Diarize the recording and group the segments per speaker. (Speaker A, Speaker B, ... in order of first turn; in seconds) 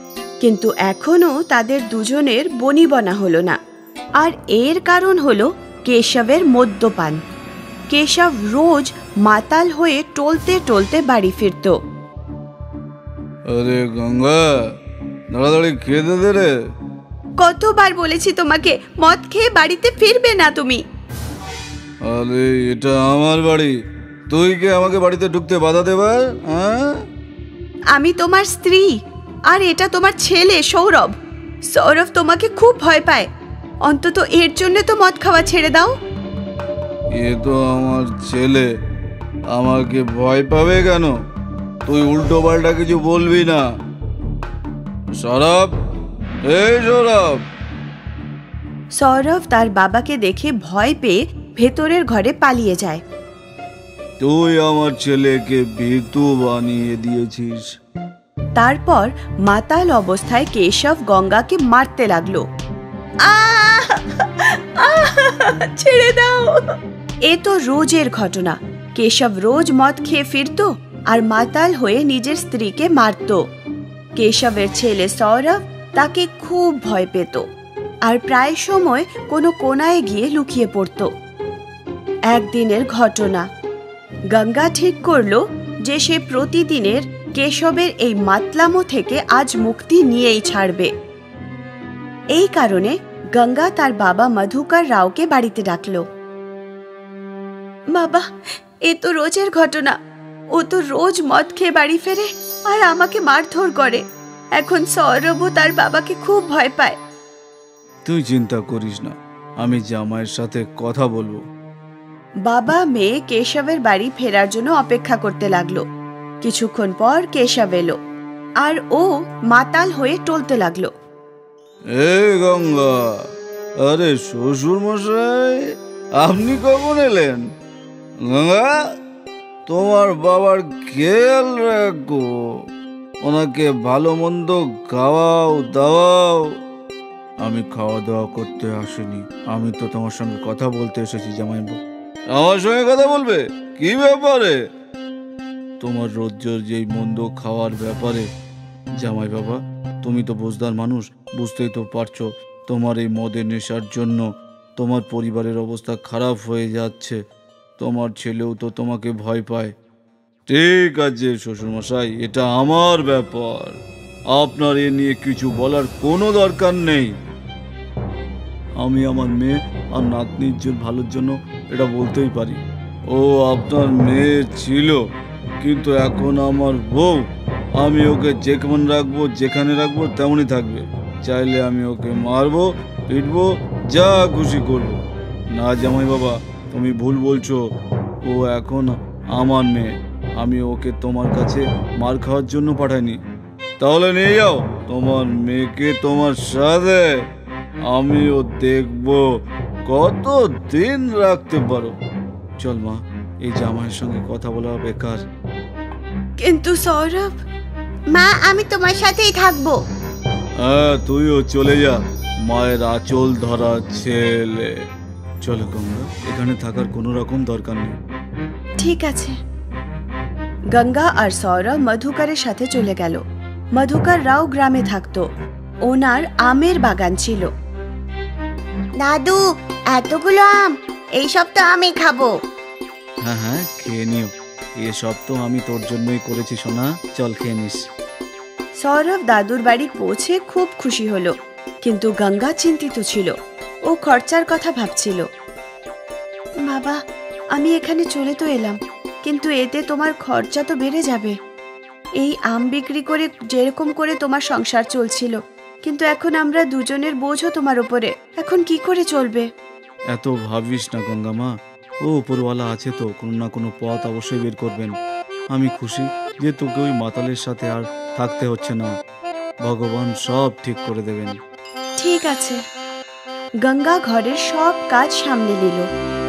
Speaker A: 0.4-3.6, 4.2-7.2, 7.9-11.8, 17.4-20.8, 27.9-31.2, 31.7-33.3, 33.8-36.0, 49.0-53.0, 58.5-62.5, 63.2-66.7, 67.2-73.4, 74.2-77.5, 78.0-81.1, 82.3-83.5, 84.3-90.9, 92.3-96.0, 97.9-98.3, 98.8-100.0, 100.5-104.0, 104.5-107.0, 112.5-115.8, 116.4-118.0, 118.6-120.9, 206.4-207.4, 218.8-219.4, 220.7-223.2, 223.7-225.3, 225.8-227.5, 238.8-241.3, 241.8-243.3, 243.9-245.3, 246.6-247.0, 247.5-251.4, 252.2-259.5, 272.0-272.6, 273.6-275.9
Speaker B: 13.5-14.4, 15.3-16.5, 22.1-23.7, 24.3-26.9, 37.1-38.6, 39.5-41.1, 41.9-43.6, 45.2-45.7, 46.5-47.4, 54.2-57.6, 108.0-111.4, 121.9-123.2, 123.8-127.4, 128.3-128.9, 129.7-132.2, 133.2-136.5, 137.4-141.8, 142.3-144.6, 145.8-148.2, 149.0-154.2, 154.8-157.2, 157.8-159.7, 160.5-163.8, 164.3-167.1, 168.8-172.6, 173.1-175.0, 175.6-177.2, 177.8-185.0, 185.5-187.6, 188.2-193.2, 193.8-197.1, 197.9-199.2, 199.9-201.9, 202.6-205.2, 210.6-214.7, 215.4-217.9, 233.2-237.8, 260.1-264.9, 265.5-268.9, 269.6-271.4
Speaker C: 208.1-209.8, 229.0-229.4, 229.9-232.3